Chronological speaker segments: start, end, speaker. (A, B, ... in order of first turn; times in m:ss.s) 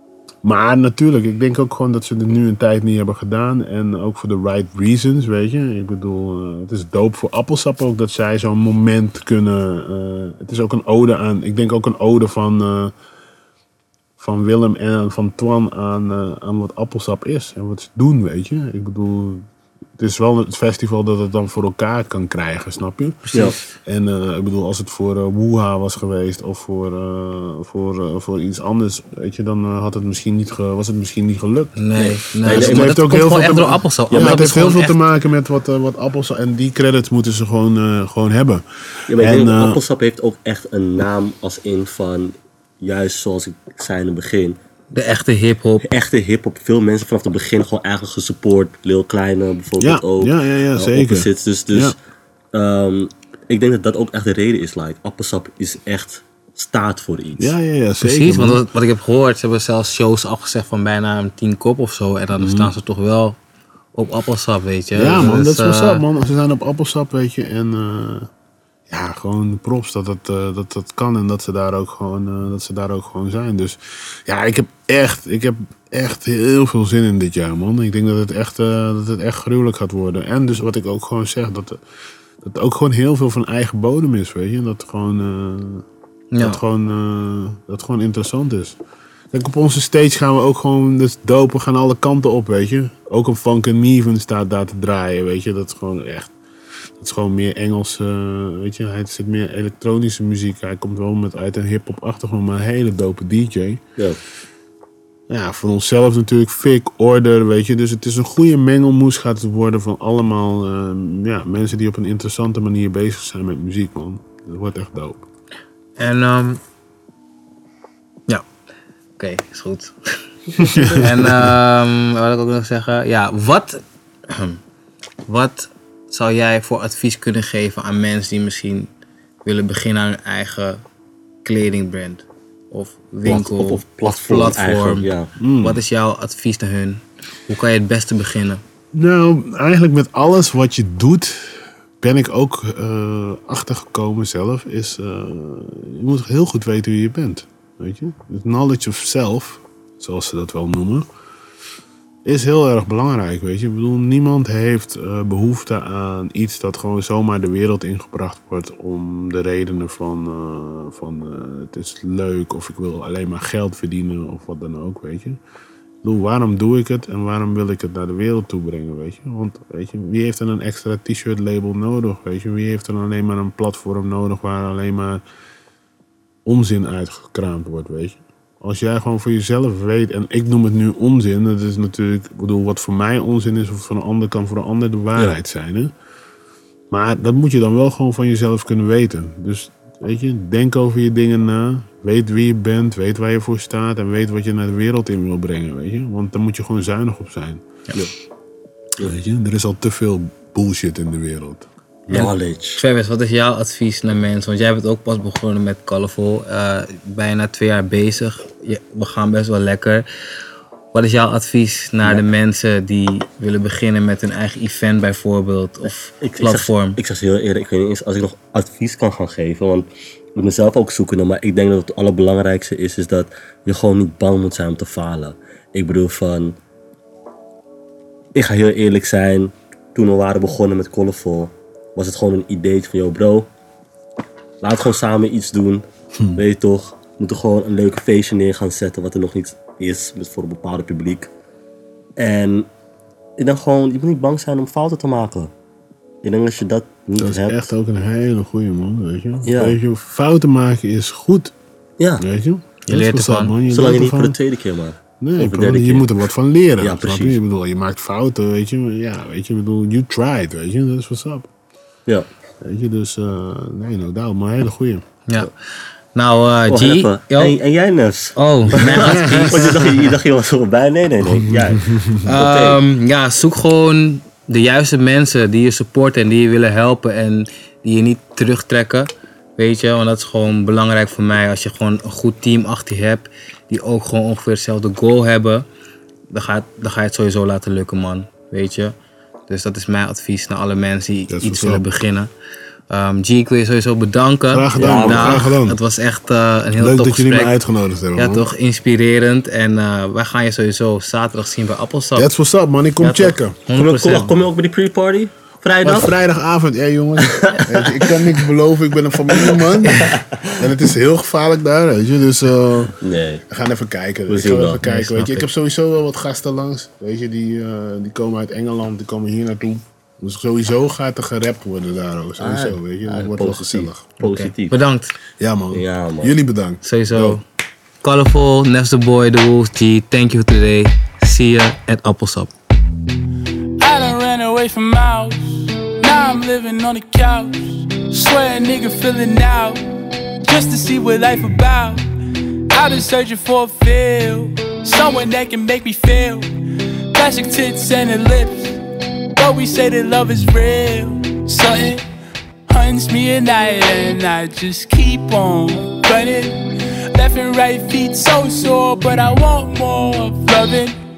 0:00.4-0:12.9 A
0:14.2-0:19.5 A
0:20.0-0:31.8 A
0:31.8-0:35.0 B
0:32.0-0:32.9 C
0:32.4-0:39.8 A
0:34.1-0:34.4 C
0:39.1-0:44.6 C
0:44.9-0:45.8 B
0:45.8-0:52.0 C
0:49.8-0:52.0 A
0:52.5-0:57.5 C
0:57.4-0:58.6 A
0:58.0-1:03.4 B
1:02.4-1:02.7 A
1:04.0-1:06.0 B
1:04.9-1:08.3 A
1:08.9-1:21.8 A
1:22.4-1:25.9 A
1:26.3-1:26.6 B
1:26.4-1:28.8 A
1:29.3-1:36.4 A
1:37.0-1:43.8 A
1:45.3-1:55.2 A
1:56.0-1:56.6 B
1:59.2-2:00.0 B
2:00.6-2:01.1 C
2:00.6-2:01.3 A
2:01.0-2:04.6 B
2:05.3-2:08.9 B
2:09.4-2:10.8 B
2:11.4-2:15.1 B
2:13.2-2:15.3 C
2:15.4-2:15.8 A
2:15.6-2:18.6 B
2:18.9-2:31.1 A
2:32.2-2:45.4 A
2:46.0-2:55.2 A
2:56.4-3:05.9 A
3:06.9-3:17.6 A
3:19.0-3:22.3 A
3:22.1-3:22.8 C
3:22.1-3:30.1 B
3:30.9-3:37.0 B
3:36.2-3:46.6 C
3:48.4-3:53.5 C
3:54.6-4:01.3 C
4:02.2-4:02.7 C
4:03.4-4:05.5 C
4:06.2-4:07.7 C
4:07.2-4:11.5 A
4:09.4-4:09.8 C
4:12.2-4:14.4 A
4:12.9-4:13.6 B
4:13.7-4:16.1 C
4:15.2-4:21.5 A
4:16.8-4:17.4 C
4:22.6-4:25.0 A
4:26.2-4:27.6 B
4:26.7-4:32.8 C
4:28.4-4:29.7 B
4:28.8-4:30.1 A
4:31.2-4:32.2 A
4:32.2-4:45.7 B
4:46.3-4:49.0 B
4:49.5-4:52.3 B
4:51.3-4:51.9 A
4:52.9-4:57.6 B
4:54.5-4:55.8 A
4:54.8-4:55.4 C
4:56.8-4:58.5 A
4:58.2-5:02.3 B
5:02.2-5:03.6 A
5:03.0-5:04.3 B
5:03.8-5:06.1 C
5:05.8-5:13.0 A
5:07.2-5:08.3 C
5:09.3-5:10.2 C
5:13.0-5:13.4 C
5:13.5-5:24.0 A
5:14.3-5:14.8 C
5:14.8-5:15.5 B
5:22.4-5:24.8 C
5:24.2-5:25.1 B
5:25.4-5:27.4 A
5:25.7-5:26.3 C
5:26.8-5:27.4 B
5:28.0-5:32.5 B
5:33.8-5:39.8 D
5:40.4-5:42.0 D
5:42.7-5:46.5 D
5:47.1-5:48.8 D
5:49.4-5:52.0 D
5:52.7-6:01.0 D